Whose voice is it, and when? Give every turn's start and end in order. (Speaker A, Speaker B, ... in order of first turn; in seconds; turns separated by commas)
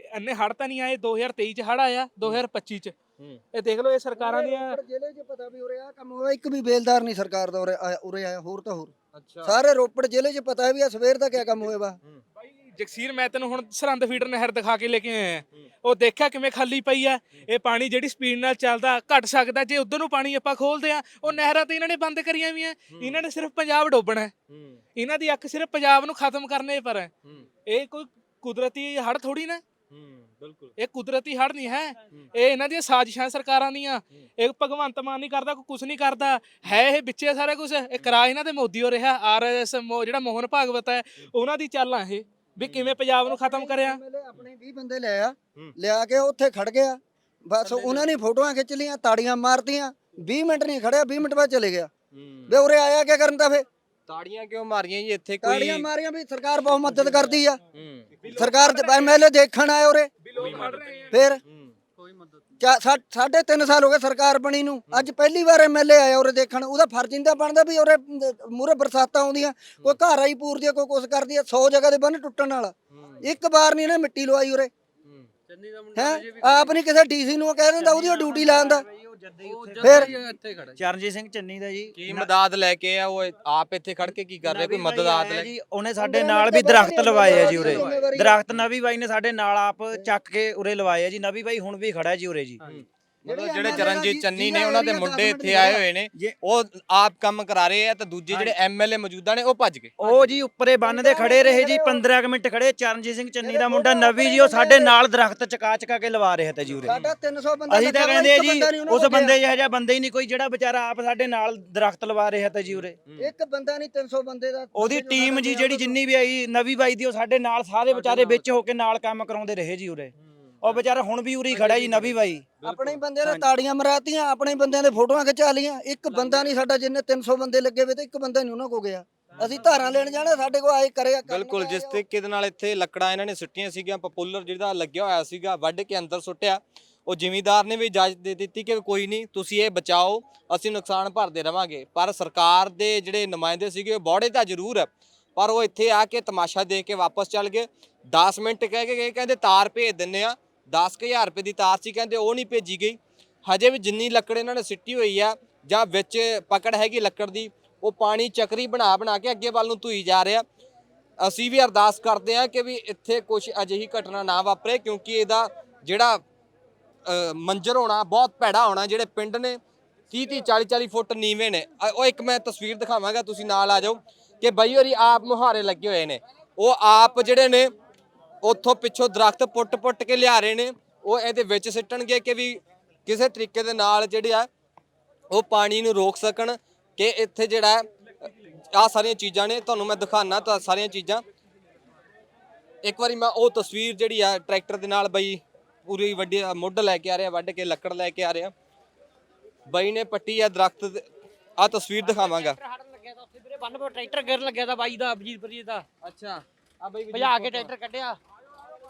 Speaker A: 0.1-2.9, Speaker A: 3.5-4.8, Speaker B: 4.1-8.9, Speaker C: 9.1-9.5, Speaker B: 9.4-12.0, Speaker A: 12.8-24.3, Speaker C: 22.9-23.2, Speaker C: 24.5-24.8, Speaker A: 24.9-27.1, Speaker A: 27.6-29.6, Speaker C: 29.9-30.7, Speaker A: 30.8-44.0, Speaker C: 42.6-43.0, Speaker B: 43.2-51.9, Speaker C: 47.6-48.0, Speaker C: 52.1-52.6, Speaker B: 52.5-53.6, Speaker C: 54.1-55.9, Speaker B: 55.4-57.6, Speaker C: 57.7-58.2, Speaker A: 58.2-59.1, Speaker B: 58.3-60.1, Speaker A: 60.2-61.1, Speaker C: 60.4-61.7, Speaker B: 61.1-61.4, Speaker B: 62.6-74.7, Speaker B: 75.9-78.8, Speaker D: 77.9-80.0, Speaker C: 79.5-80.6, Speaker B: 79.8-80.1, Speaker D: 80.7-82.3, Speaker C: 81.9-85.5, Speaker D: 84.4-92.6, Speaker B: 86.0-88.4, Speaker C: 87.3-87.7, Speaker C: 92.6-99.9, Speaker B: 93.2-95.8, Speaker D: 100.0-106.9, Speaker B: 100.8-102.0, Speaker B: 103.4-105.0, Speaker C: 106.7-107.2, Speaker B: 106.8-109.3, Speaker D: 107.7-113.0, Speaker B: 113.2-116.0, Speaker D: 114.7-122.5, Speaker C: 121.6-123.0, Speaker B: 122.6-132.0, Speaker C: 131.3-160.4, Speaker C: 161.2-166.2, Speaker C: 167.1-169.6, Speaker C: 170.1-177.7, Speaker C: 178.4-184.5, Speaker C: 185.3-187.8, Speaker C: 188.7-191.2, Speaker C: 192.8-198.5, Speaker C: 199.7-201.1, Speaker C: 201.6-202.6, Speaker E: 202.0-205.8, Speaker C: 206.0-207.7, Speaker E: 207.1-208.2